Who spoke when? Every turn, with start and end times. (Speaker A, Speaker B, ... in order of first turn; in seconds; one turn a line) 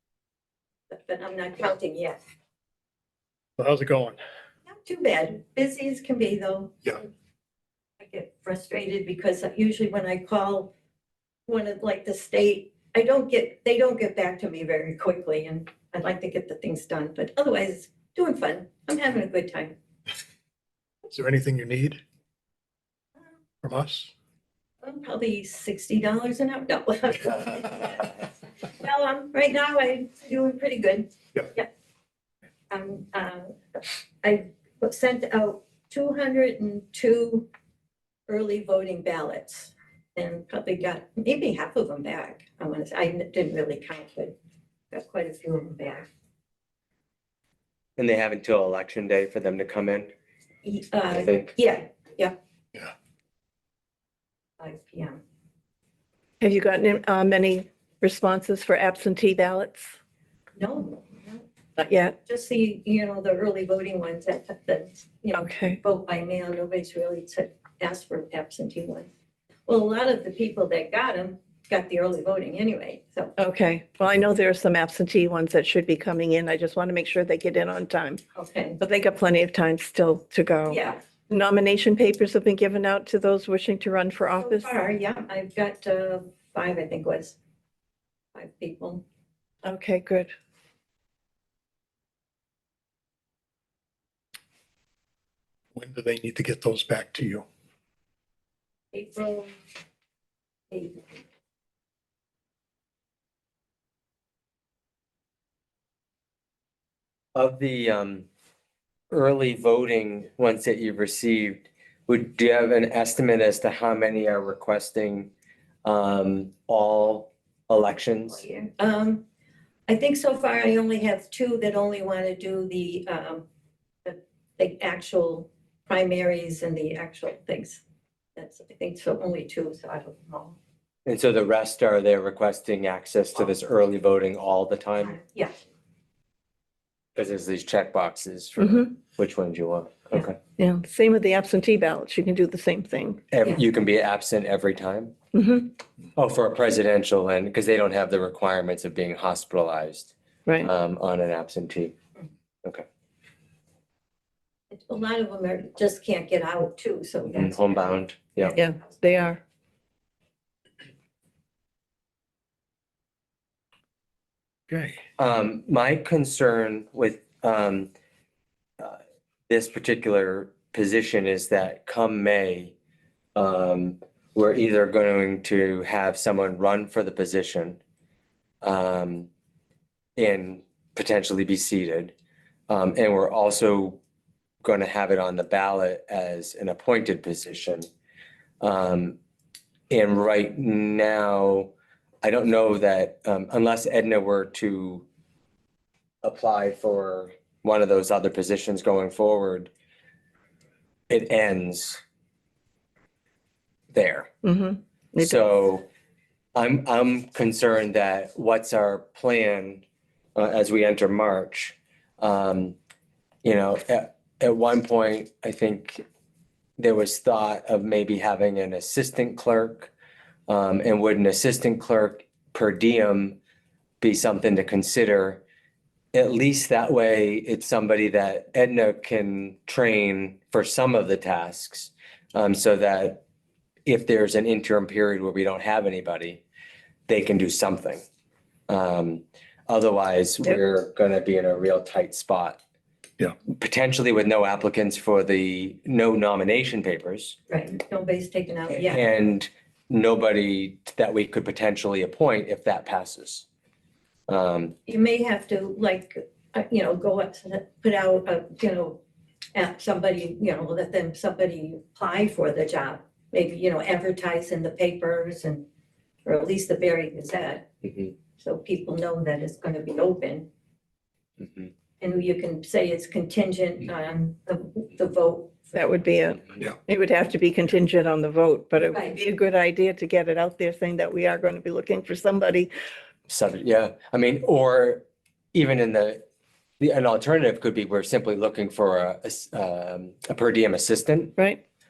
Speaker A: 0.9-2.2
Speaker B: 3.6-4.2
Speaker A: 4.7-6.7
Speaker A: 8.0-10.7
Speaker A: 11.5-19.7
Speaker B: 21.1-22.0
Speaker B: 23.6-24.1
Speaker A: 24.8-31.7
Speaker A: 32.7-33.5
Speaker A: 34.2-37.5
Speaker A: 38.3-44.4
Speaker A: 44.9-46.1
Speaker C: 48.0-50.1
Speaker A: 50.6-52.3
Speaker C: 51.1-51.5
Speaker A: 54.6-55.2
Speaker D: 56.4-60.0
Speaker A: 60.5-61.5
Speaker D: 61.8-62.1
Speaker A: 62.1-69.1
Speaker D: 65.3-65.8
Speaker A: 69.7-73.3
Speaker D: 73.4-78.2
Speaker A: 78.3-78.8
Speaker D: 78.8-84.7
Speaker A: 80.7-81.0
Speaker A: 84.4-87.4
Speaker A: 88.3-89.0
Speaker D: 89.6-90.3
Speaker B: 95.7-97.4
Speaker A: 98.9-99.5
Speaker A: 100.7-101.0
Speaker C: 107.3-108.2
Speaker C: 109.1-115.3
Speaker C: 115.8-118.4
Speaker A: 118.3-119.2
Speaker A: 119.9-123.4
Speaker A: 124.0-127.8
Speaker A: 128.3-130.6
Speaker C: 131.1-135.2
Speaker A: 135.0-135.5
Speaker C: 137.1-140.4
Speaker D: 138.6-138.9
Speaker D: 140.6-143.2
Speaker C: 143.3-145.1
Speaker D: 145.3-145.7
Speaker C: 146.2-151.9
Speaker D: 150.4-150.7
Speaker A: 154.7-159.3
Speaker C: 157.3-158.6
Speaker D: 158.6-159.4
Speaker B: 164.7-165.0
Speaker C: 165.2-167.9
Speaker C: 168.8-172.7
Speaker C: 173.3-177.8
Speaker C: 178.6-179.3
Speaker C: 180.2-182.1
Speaker C: 182.7-184.0
Speaker C: 184.6-187.9
Speaker C: 188.6-189.2
Speaker C: 189.9-191.7
Speaker C: 192.2-195.0
Speaker C: 196.2-199.7
Speaker C: 201.1-202.0
Speaker C: 203.9-204.3
Speaker D: 204.4-205.4
Speaker C: 205.2-205.8
Speaker C: 206.6-209.8
Speaker C: 210.3-212.8
Speaker C: 213.4-216.0
Speaker C: 216.8-219.9
Speaker C: 220.5-223.4
Speaker C: 224.0-225.4
Speaker C: 226.1-233.2
Speaker C: 233.8-236.4
Speaker C: 237.1-238.0
Speaker C: 238.7-242.6
Speaker C: 243.5-247.3
Speaker A: 247.5-249.0
Speaker C: 248.8-253.4
Speaker C: 254.3-254.8
Speaker A: 254.8-259.0
Speaker A: 259.5-265.6
Speaker A: 266.2-267.7
Speaker C: 267.8-268.1
Speaker A: 268.4-270.5
Speaker C: 271.4-271.7
Speaker A: 272.0-275.8
Speaker D: 275.7-282.7
Speaker C: 283.3-286.2
Speaker C: 286.8-291.4